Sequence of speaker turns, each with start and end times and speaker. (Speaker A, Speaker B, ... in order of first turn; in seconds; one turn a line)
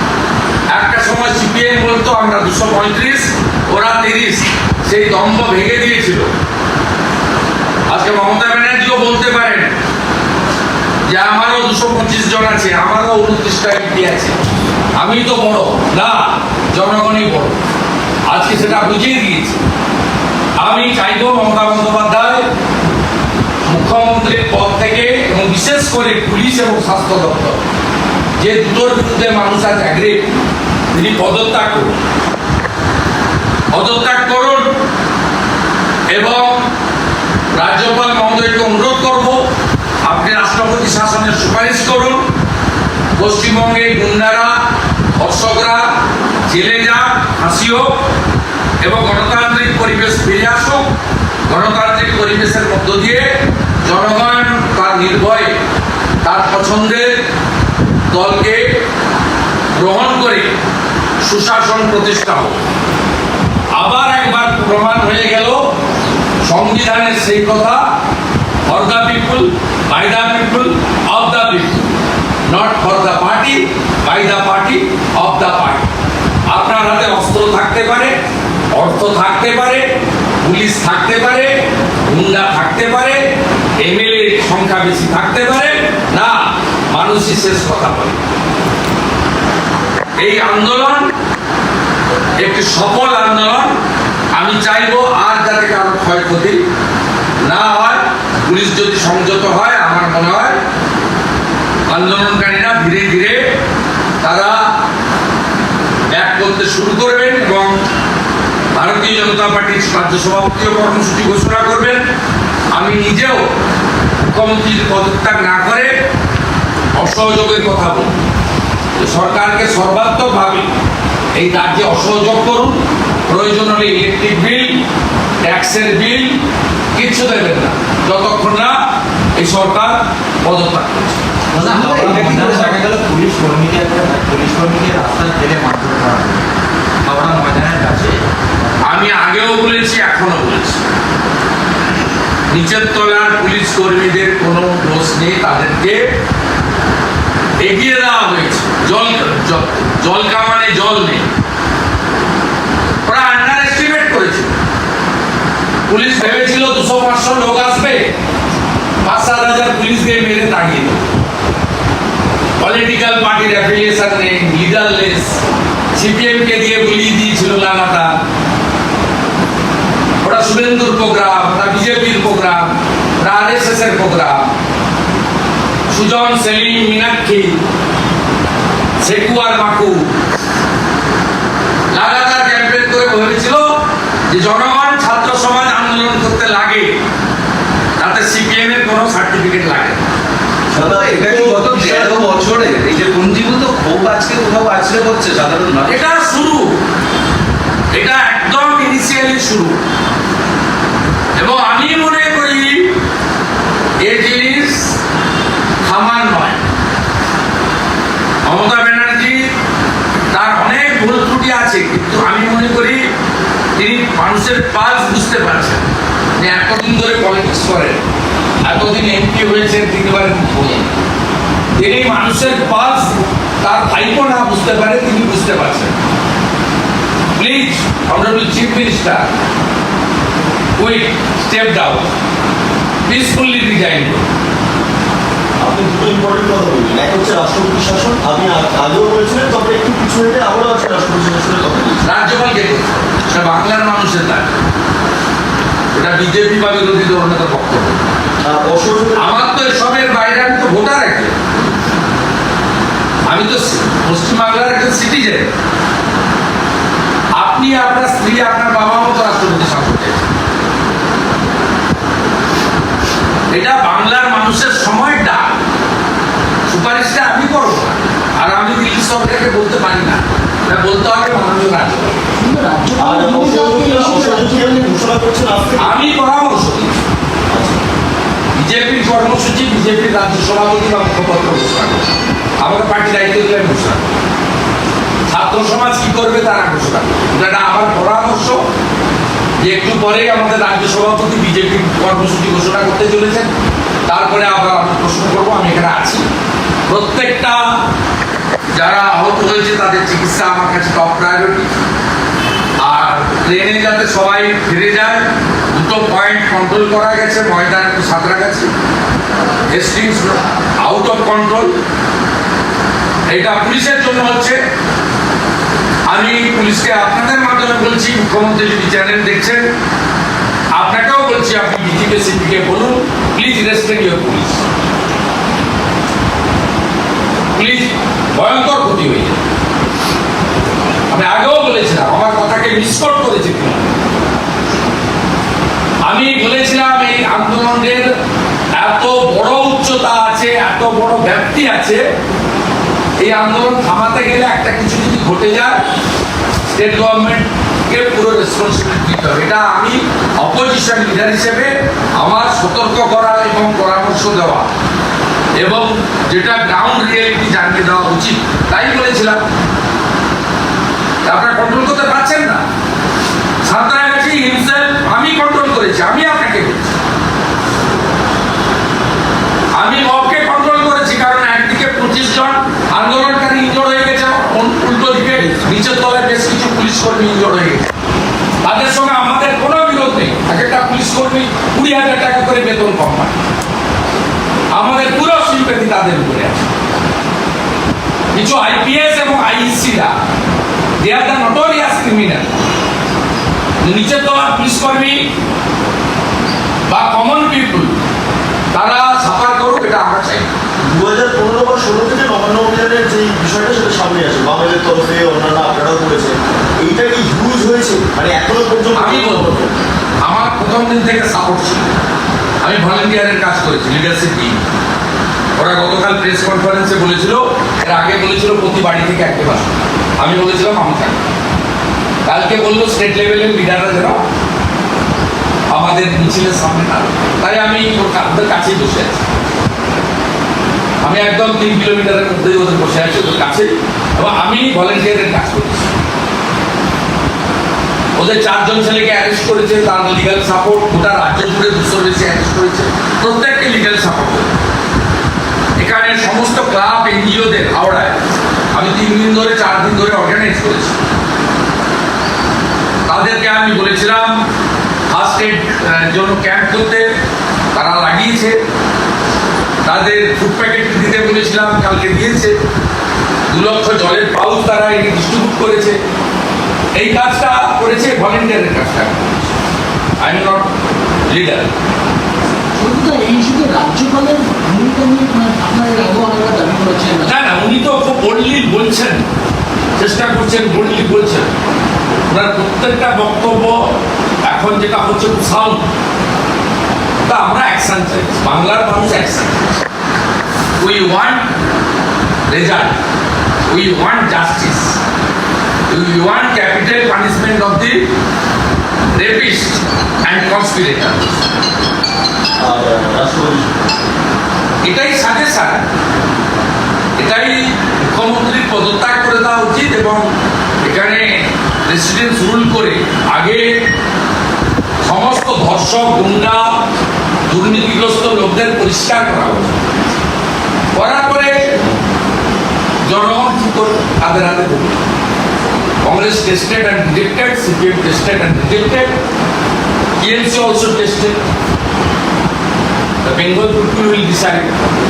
Speaker A: 0.7-6.3
Speaker A: 7.9-9.7
Speaker A: 11.1-14.3
Speaker A: 15.0-17.6
Speaker A: 18.3-19.6
Speaker A: 20.6-22.4
Speaker A: 23.6-27.6
Speaker A: 28.4-30.3
Speaker A: 30.9-32.0
Speaker A: 33.7-34.7
Speaker A: 36.1-36.7
Speaker A: 37.5-39.4
Speaker A: 40.0-42.2
Speaker A: 43.2-44.6
Speaker A: 45.2-45.9
Speaker A: 46.5-48.0
Speaker A: 48.8-50.9
Speaker A: 51.5-55.6
Speaker A: 56.2-57.2
Speaker A: 58.1-58.8
Speaker A: 59.7-60.5
Speaker A: 61.2-62.6
Speaker A: 63.7-65.7
Speaker A: 66.4-67.8
Speaker A: 68.7-71.9
Speaker A: 72.5-75.9
Speaker A: 76.5-78.1
Speaker A: 78.7-79.9
Speaker A: 80.4-83.2
Speaker A: 83.8-86.4
Speaker A: 86.9-88.2
Speaker A: 90.2-91.1
Speaker A: 92.4-93.7
Speaker A: 94.3-96.6
Speaker A: 97.4-100.6
Speaker A: 101.9-103.5
Speaker A: 104.2-104.7
Speaker A: 106.1-107.8
Speaker A: 108.7-112.0
Speaker A: 112.7-113.5
Speaker A: 114.2-115.9
Speaker A: 117.0-118.2
Speaker A: 119.0-120.7
Speaker A: 121.3-124.8
Speaker A: 125.4-126.4
Speaker A: 126.9-128.8
Speaker A: 129.3-131.2
Speaker B: 131.5-136.4
Speaker C: 131.6-132.8
Speaker B: 137.0-138.2
Speaker A: 138.8-140.8
Speaker A: 142.5-146.1
Speaker A: 147.6-151.3
Speaker A: 153.1-154.5
Speaker A: 155.9-158.1
Speaker A: 159.0-161.1
Speaker A: 162.6-165.4
Speaker A: 165.9-168.1
Speaker A: 170.2-174.5
Speaker A: 175.9-177.6
Speaker A: 179.0-180.1
Speaker A: 181.9-183.7
Speaker A: 184.3-186.9
Speaker A: 188.0-190.0
Speaker C: 190.7-196.1
Speaker D: 190.7-192.2
Speaker A: 195.9-196.8
Speaker A: 197.9-199.8
Speaker A: 201.3-202.9
Speaker A: 204.0-204.9
Speaker A: 205.8-206.6
Speaker A: 208.4-209.5
Speaker A: 210.3-213.0
Speaker A: 213.8-215.8
Speaker A: 216.4-218.0
Speaker A: 218.6-220.9
Speaker A: 221.8-225.9
Speaker A: 227.3-229.3
Speaker A: 230.8-232.1
Speaker A: 233.1-234.2
Speaker D: 235.6-242.0
Speaker A: 242.0-244.6
Speaker A: 245.9-248.0
Speaker D: 248.4-249.5
Speaker A: 249.2-251.3
Speaker A: 253.3-255.5
Speaker A: 257.3-260.2
Speaker A: 263.5-265.5
Speaker A: 266.7-272.2
Speaker E: 272.4-274.9
Speaker D: 273.0-275.9
Speaker A: 275.8-277.0
Speaker D: 277.5-277.8
Speaker A: 278.6-282.1
Speaker A: 282.6-284.1
Speaker A: 285.3-288.6
Speaker A: 289.6-293.5
Speaker A: 294.1-296.2
Speaker A: 296.9-297.8
Speaker A: 298.7-301.7
Speaker A: 302.8-308.7
Speaker A: 309.7-311.7
Speaker A: 313.3-314.6
Speaker A: 316.1-319.7
Speaker A: 320.7-324.6
Speaker A: 327.5-329.4
Speaker A: 331.1-333.9
Speaker A: 336.0-338.1
Speaker A: 338.8-342.0
Speaker A: 343.2-345.8
Speaker A: 346.7-354.7
Speaker A: 355.6-359.4
Speaker A: 361.2-362.6
Speaker A: 363.6-367.0
Speaker A: 369.7-377.9
Speaker A: 378.6-383.4
Speaker A: 384.7-386.7
Speaker A: 388.3-390.1
Speaker A: 391.0-392.6
Speaker A: 393.8-395.3
Speaker A: 396.9-398.0
Speaker A: 398.7-400.5
Speaker D: 400.8-409.8
Speaker A: 408.9-409.6
Speaker A: 410.2-411.9
Speaker A: 412.6-414.6
Speaker A: 415.6-421.2
Speaker A: 422.2-424.2
Speaker A: 425.7-429.2
Speaker A: 431.0-435.9
Speaker A: 438.2-444.5
Speaker A: 445.8-448.2
Speaker A: 448.7-450.9
Speaker A: 453.1-454.4
Speaker A: 455.1-457.1
Speaker A: 457.7-458.6
Speaker A: 459.8-462.6
Speaker A: 463.5-466.0
Speaker A: 466.9-469.5
Speaker A: 470.2-470.7
Speaker A: 471.3-471.7
Speaker E: 472.8-477.3
Speaker A: 477.2-479.2
Speaker A: 480.0-481.5
Speaker A: 482.3-483.9
Speaker A: 484.4-485.9
Speaker A: 487.2-489.8
Speaker A: 490.8-491.5
Speaker A: 492.5-493.0
Speaker A: 493.7-495.0
Speaker A: 495.9-498.1
Speaker A: 499.1-501.4
Speaker D: 502.6-503.7
Speaker A: 504.8-505.9
Speaker A: 507.2-510.3
Speaker A: 510.8-513.9
Speaker A: 515.0-516.8
Speaker A: 517.5-519.8
Speaker A: 520.9-521.8
Speaker A: 523.0-525.0
Speaker A: 526.0-529.1
Speaker A: 530.2-531.4
Speaker A: 533.2-534.7